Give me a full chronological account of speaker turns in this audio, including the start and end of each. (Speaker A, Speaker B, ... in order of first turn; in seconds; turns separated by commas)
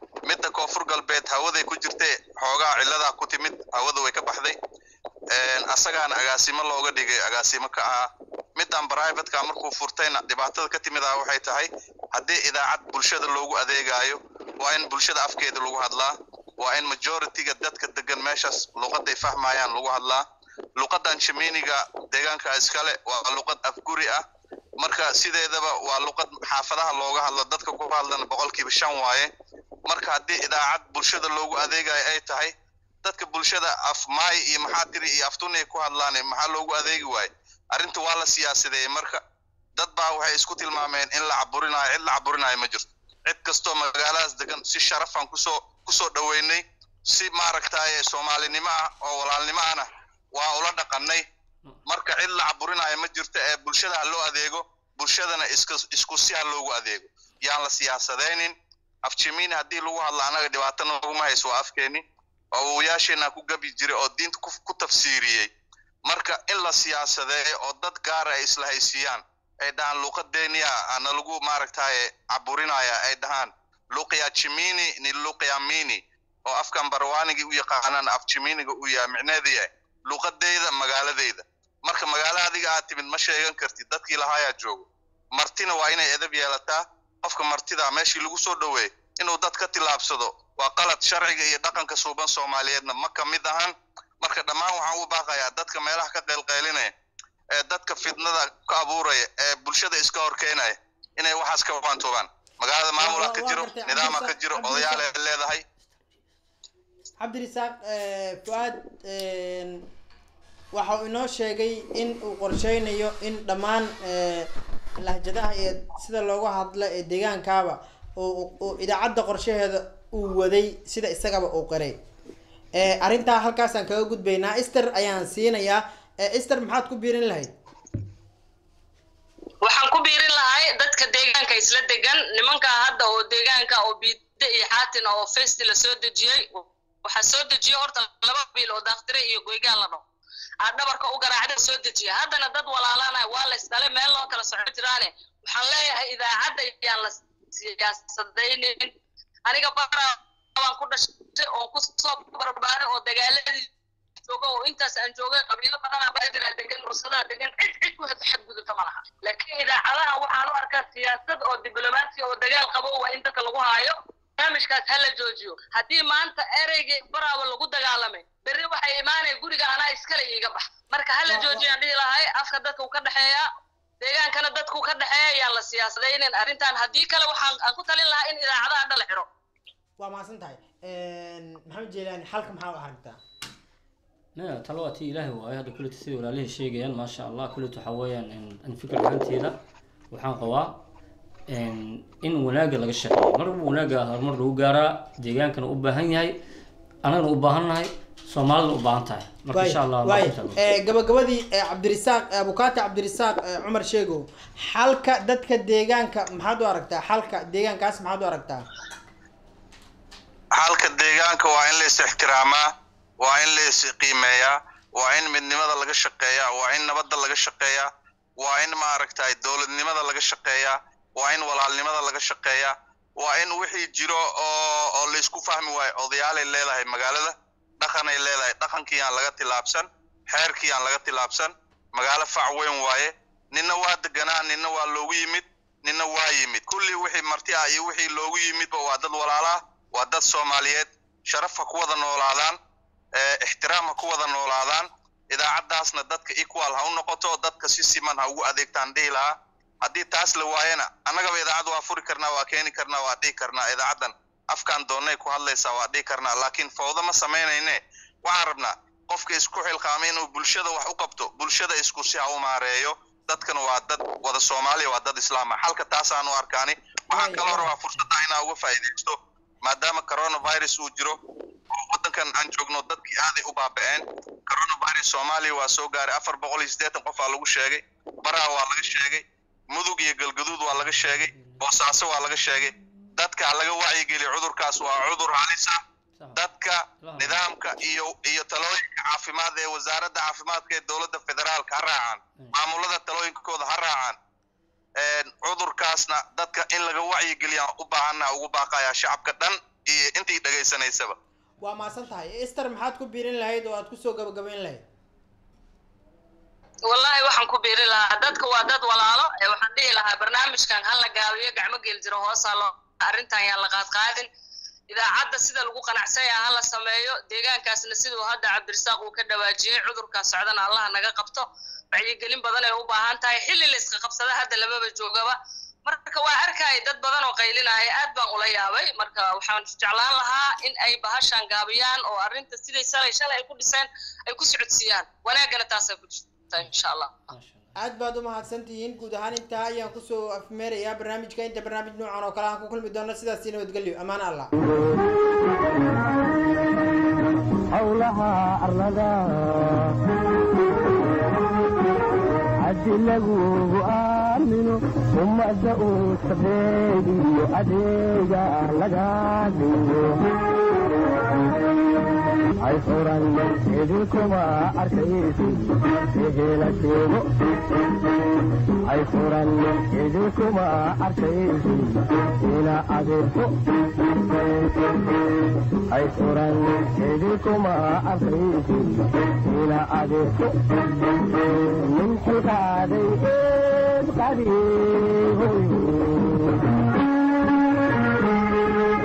Speaker A: 0.2-4.6, Speaker A: 5.3-20.2, Speaker A: 20.8-24.2, Speaker A: 24.8-29.3, Speaker A: 29.9-32.5, Speaker A: 33.0-39.2, Speaker A: 39.8-51.2, Speaker A: 51.9-65.5, Speaker A: 66.0-96.9, Speaker A: 97.6-105.6, Speaker B: 103.0-105.1, Speaker B: 107.2-109.8, Speaker B: 110.7-114.5, Speaker B: 115.0-122.0, Speaker B: 122.8-127.5, Speaker C: 129.6-140.1, Speaker C: 140.6-148.9, Speaker C: 149.5-153.7, Speaker C: 154.2-173.5, Speaker B: 171.3-171.7, Speaker C: 174.0-179.3, Speaker B: 180.0-183.2, Speaker D: 184.4-189.6, Speaker D: 190.1-190.8, Speaker D: 191.5-196.3, Speaker D: 197.0-200.6, Speaker B: 199.5-208.6, Speaker A: 210.6-212.6, Speaker A: 213.2-217.9, Speaker A: 218.4-242.6, Speaker A: 243.2-271.2, Speaker B: 267.1-267.7, Speaker A: 271.7-285.8, Speaker A: 286.4-294.1, Speaker D: 287.0-287.4, Speaker A: 295.0-301.1, Speaker B: 301.6-304.8, Speaker C: 306.9-314.3, Speaker C: 314.9-337.1, Speaker D: 337.3-337.7, Speaker B: 337.8-344.5, Speaker E: 344.6-345.0, Speaker E: 347.7-350.0, Speaker E: 352.6-360.3, Speaker E: 362.6-367.3, Speaker E: 368.9-373.8, Speaker E: 375.9-380.6, Speaker E: 381.6-386.6